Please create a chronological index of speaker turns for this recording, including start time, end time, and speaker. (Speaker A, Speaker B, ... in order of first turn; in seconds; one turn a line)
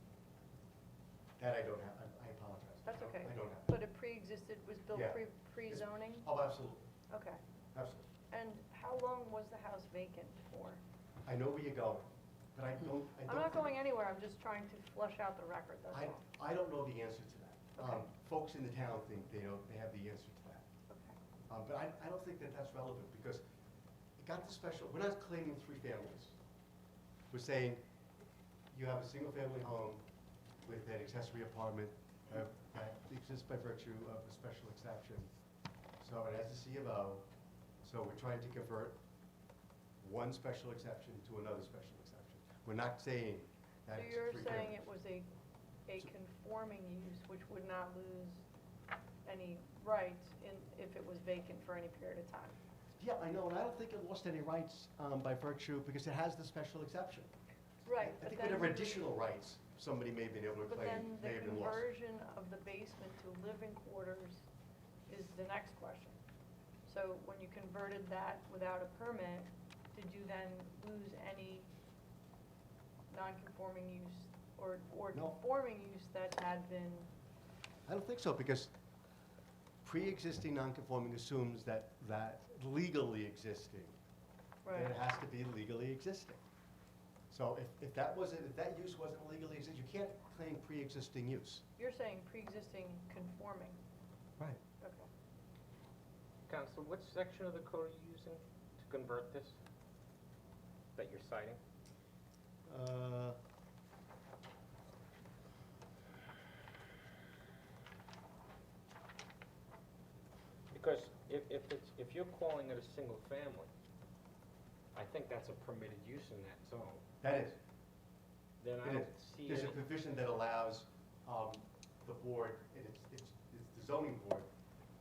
Speaker A: 1.4-3.7
Speaker B: 2.9-6.3
Speaker A: 4.9-5.2
Speaker A: 5.7-6.9
Speaker B: 7.1-7.4
Speaker A: 7.7-8.1
Speaker B: 8.3-10.8
Speaker A: 11.3-13.6
Speaker B: 13.3-16.2
Speaker A: 15.9-20.7
Speaker B: 20.9-21.1
Speaker A: 21.5-23.4
Speaker A: 24.2-26.4
Speaker A: 27.3-27.8
Speaker A: 28.7-30.0
Speaker A: 30.6-35.3
Speaker A: 36.0-37.2
Speaker A: 37.8-39.0
Speaker A: 40.0-44.8
Speaker B: 43.9-45.3
Speaker B: 45.9-48.4
Speaker B: 49.2-52.6
Speaker A: 53.0-57.3
Speaker B: 57.9-59.0
Speaker A: 58.0-61.9
Speaker B: 60.7-64.4
Speaker B: 65.1-66.2
Speaker B: 66.9-71.7
Speaker B: 73.1-77.1
Speaker A: 77.9-78.7
Speaker A: 79.8-83.9
Speaker B: 84.7-84.9
Speaker A: 84.7-86.4
Speaker A: 87.3-91.6
Speaker B: 91.8-93.8
Speaker B: 94.8-95.1
Speaker C: 96.5-99.6
Speaker C: 101.0-101.6
Speaker A: 102.7-103.4
Speaker C: 110.7-113.7
Speaker C: 115.0-117.0
Speaker A: 117.2-117.6
Speaker C: 118.6-119.8
Speaker A: 118.8-124.5